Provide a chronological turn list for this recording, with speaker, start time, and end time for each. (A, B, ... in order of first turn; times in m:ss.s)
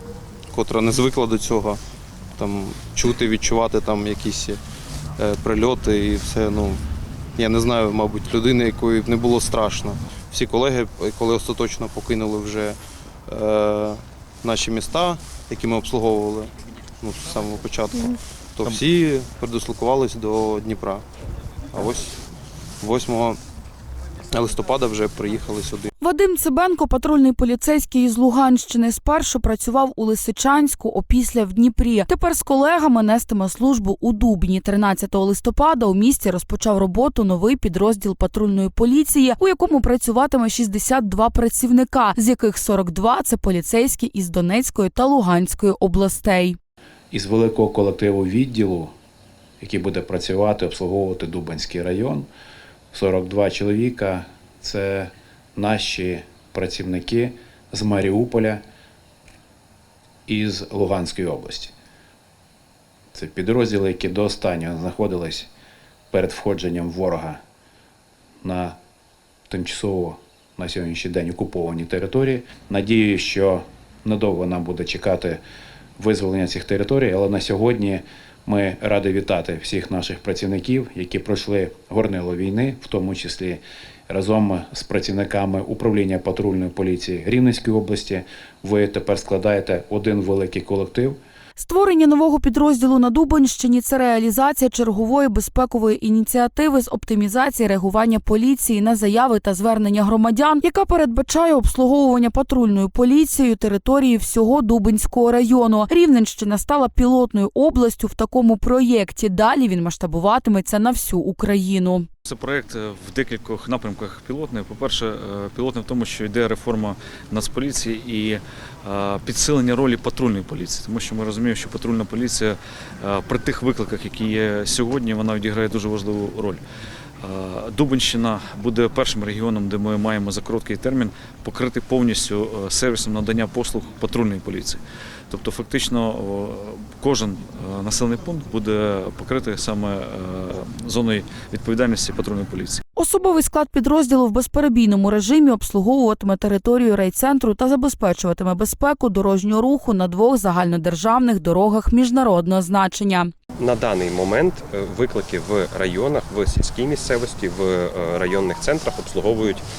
0:00.5-0:01.8 A
0:02.4-0:04.6 A
0:05.2-0:06.8 A
0:07.4-0:21.0 A
0:21.7-0:22.2 A
0:22.8-0:23.4 A
0:24.3-0:25.9 A
0:26.0-0:46.6 B
0:47.1-0:48.9 C
0:49.6-0:52.3 C
0:52.9-0:58.6 C
1:00.3-1:01.7 C
1:03.1-1:05.5 C
1:06.1-1:07.4 C
1:08.4-1:08.8 C
1:09.5-1:15.4 C
1:16.0-1:31.2 C
1:31.6-1:52.1 B
1:52.2-2:06.6 D
2:07.2-2:22.8 D
2:22.9-2:33.3 B
2:33.6-2:39.6 E